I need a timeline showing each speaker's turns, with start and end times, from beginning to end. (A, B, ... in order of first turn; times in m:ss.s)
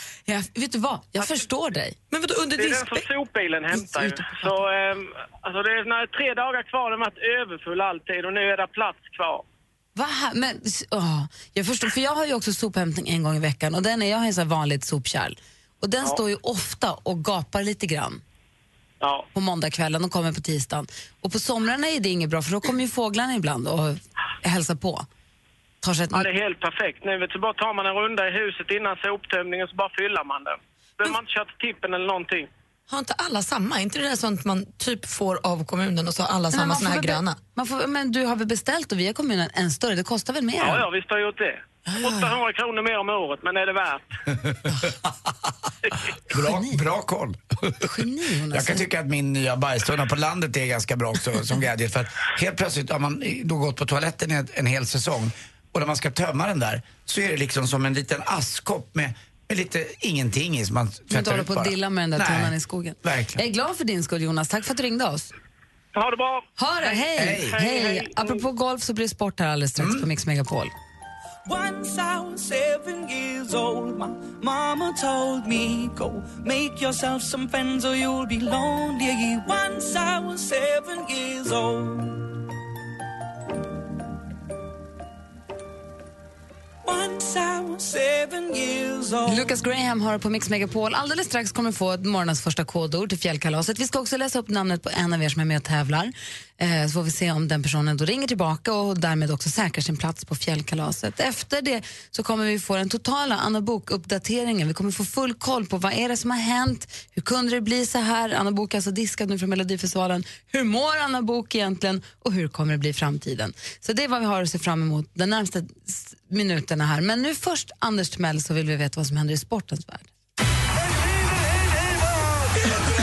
0:00.3-0:02.0 A
0:02.1-0:03.0 B
0:02.6-0:09.4 C
0:03.7-0:04.6 A
0:10.0-0:18.2 A
0:19.0-0:19.3 C
0:19.3-0:25.1 A
0:25.8-0:26.3 A
0:26.1-0:32.5 C
0:32.9-0:37.4 B
0:36.5-0:40.9 A
0:40.6-0:44.0 C
0:41.8-0:42.4 B
0:46.3-0:47.9 D
0:46.3-0:46.8 A
0:47.8-0:48.9 A
0:48.5-1:03.4 D
1:01.1-1:05.3 A
1:05.9-1:08.4 C
1:06.6-1:10.7 A
1:07.1-1:07.6 D
1:09.8-1:10.0 D
1:11.4-1:22.2 E
1:26.8-1:29.5 E
1:29.2-2:00.1 A